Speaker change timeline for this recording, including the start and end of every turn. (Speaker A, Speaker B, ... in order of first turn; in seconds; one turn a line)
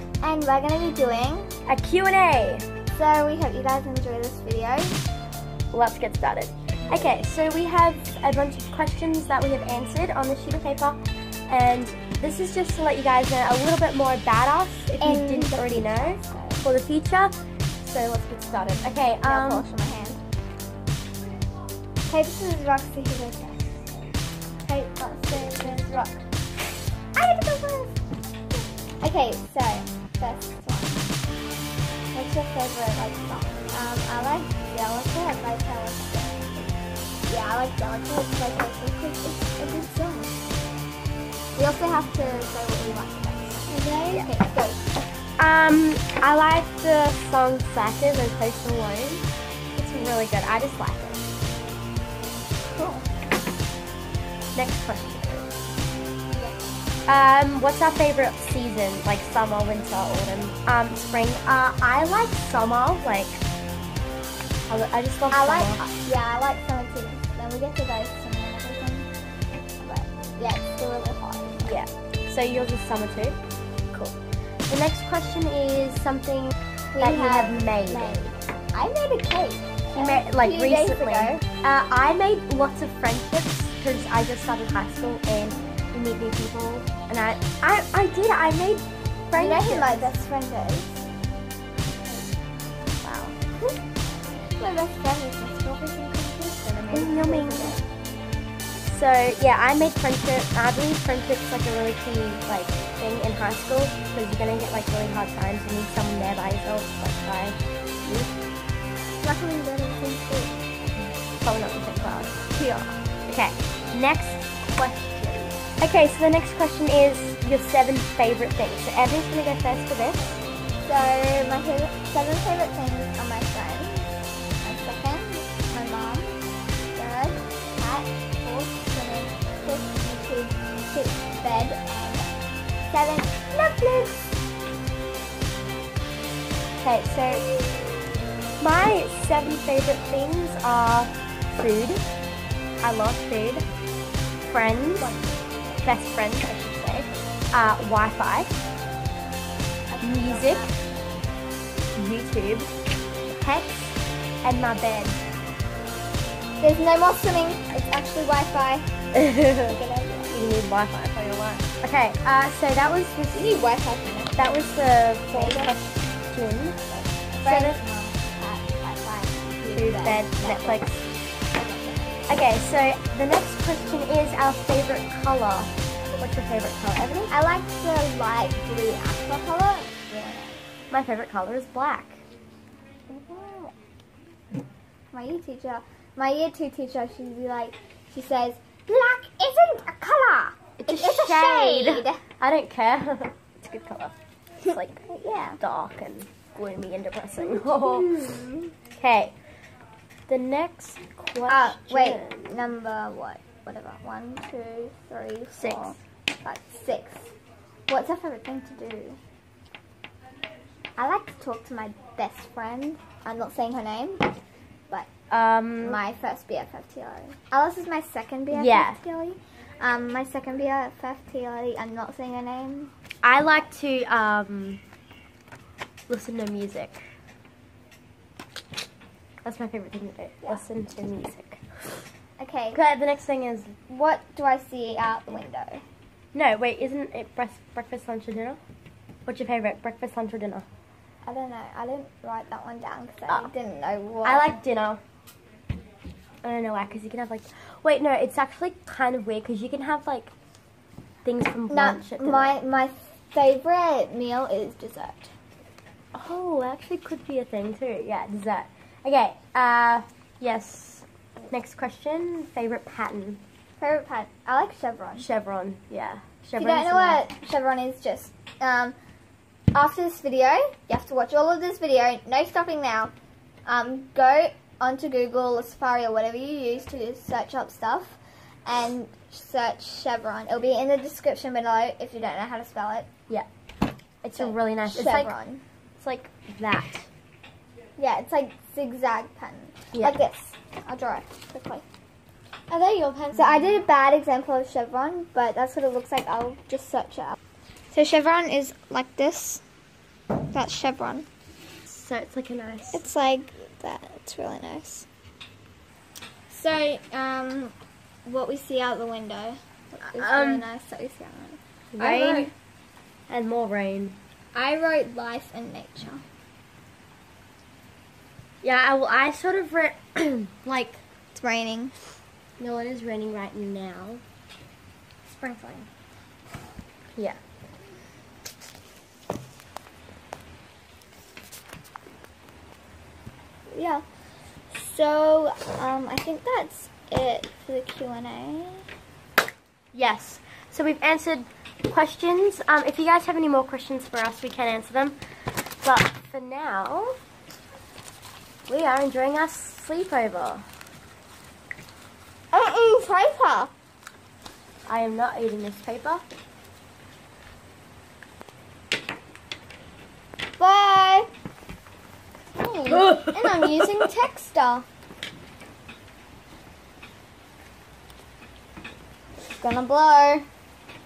Speaker A: 0.2-1.5
Speaker B: 1.6-2.6
Speaker A: 2.9-5.0
Speaker B: 5.7-11.0
Speaker B: 11.5-19.6
Speaker A: 15.0-16.6
Speaker A: 19.2-20.2
Speaker A: 22.1-26.1
Speaker B: 24.7-26.2
Speaker A: 27.1-28.0
Speaker A: 29.0-31.0
Speaker A: 32.1-36.7
Speaker A: 37.3-40.4
Speaker A: 41.5-44.8
Speaker B: 43.7-44.3
Speaker B: 45.4-51.2
Speaker A: 52.8-53.0
Speaker B: 54.5-55.5
Speaker A: 56.3-56.7
Speaker B: 57.1-63.4
Speaker B: 64.7-65.8
Speaker A: 65.3-69.1
Speaker A: 69.8-71.8
Speaker B: 71.6-73.4
Speaker B: 73.9-74.2
Speaker B: 74.7-78.2
Speaker A: 76.9-81.4
Speaker B: 79.9-90.1
Speaker A: 89.3-91.0
Speaker B: 93.0-93.4
Speaker A: 94.5-97.8
Speaker B: 96.9-97.8
Speaker B: 98.8-108.3
Speaker A: 109.2-110.6
Speaker B: 111.4-112.4
Speaker A: 112.5-112.9
Speaker B: 113.3-120.4
Speaker A: 120.8-126.4
Speaker A: 126.9-132.3
Speaker A: 132.9-133.5
Speaker B: 133.5-134.2
Speaker B: 136.8-137.9
Speaker A: 137.1-137.4
Speaker B: 138.6-142.0
Speaker B: 142.8-143.6
Speaker B: 144.5-145.1
Speaker A: 145.0-145.4
Speaker B: 145.8-148.5
Speaker A: 149.9-150.8
Speaker B: 150.0-150.7
Speaker B: 151.9-152.7
Speaker B: 153.3-155.2
Speaker A: 156.6-158.9
Speaker B: 159.1-159.8
Speaker A: 159.6-160.4
Speaker B: 160.3-163.6
Speaker A: 163.3-164.5
Speaker B: 164.4-166.8
Speaker A: 165.3-165.8
Speaker A: 166.9-170.9
Speaker B: 167.3-167.8
Speaker B: 169.7-171.1
Speaker A: 171.5-172.3
Speaker B: 172.3-177.3
Speaker A: 177.3-180.6
Speaker B: 180.9-182.2
Speaker A: 183.1-183.7
Speaker A: 185.1-192.2
Speaker B: 190.8-194.1
Speaker A: 194.6-195.6
Speaker B: 194.7-199.3
Speaker A: 197.4-198.7
Speaker B: 200.3-202.5
Speaker A: 201.5-207.3
Speaker B: 205.6-206.0
Speaker A: 207.9-209.2
Speaker A: 211.0-214.3
Speaker B: 215.3-216.0
Speaker A: 215.8-222.9
Speaker B: 218.5-219.0
Speaker B: 223.2-224.8
Speaker B: 226.1-227.0
Speaker B: 229.4-232.0
Speaker A: 232.4-232.8
Speaker B: 232.7-233.7
Speaker A: 233.9-235.8
Speaker B: 236.3-238.6
Speaker B: 239.2-240.6
Speaker A: 241.2-244.6
Speaker B: 244.2-245.0
Speaker B: 246.4-250.3
Speaker B: 251.2-252.6
Speaker A: 251.7-255.3
Speaker B: 256.1-263.4
Speaker A: 263.8-265.3
Speaker B: 265.2-267.2
Speaker A: 266.6-268.9
Speaker A: 269.7-273.1
Speaker A: 273.6-283.1
Speaker B: 284.2-285.3
Speaker A: 284.4-285.6
Speaker B: 286.0-287.1
Speaker A: 288.0-291.8
Speaker B: 292.7-293.6
Speaker A: 293.3-297.4
Speaker A: 297.9-299.6
Speaker A: 300.5-301.3
Speaker B: 301.9-303.1
Speaker A: 302.9-305.1
Speaker A: 306.5-307.7
Speaker A: 308.2-312.5
Speaker B: 310.2-310.6
Speaker B: 311.9-312.5
Speaker B: 313.3-314.1
Speaker A: 314.5-316.2
Speaker B: 318.6-321.0
Speaker A: 321.3-321.9
Speaker B: 322.6-324.2
Speaker A: 325.4-325.9
Speaker A: 333.7-334.0
Speaker A: 334.7-338.9
Speaker B: 339.9-345.2
Speaker B: 345.8-347.1
Speaker B: 348.7-350.6
Speaker A: 352.5-353.7
Speaker B: 354.9-356.2
Speaker A: 360.6-361.3
Speaker A: 362.6-364.9
Speaker B: 362.9-363.9
Speaker A: 369.6-370.5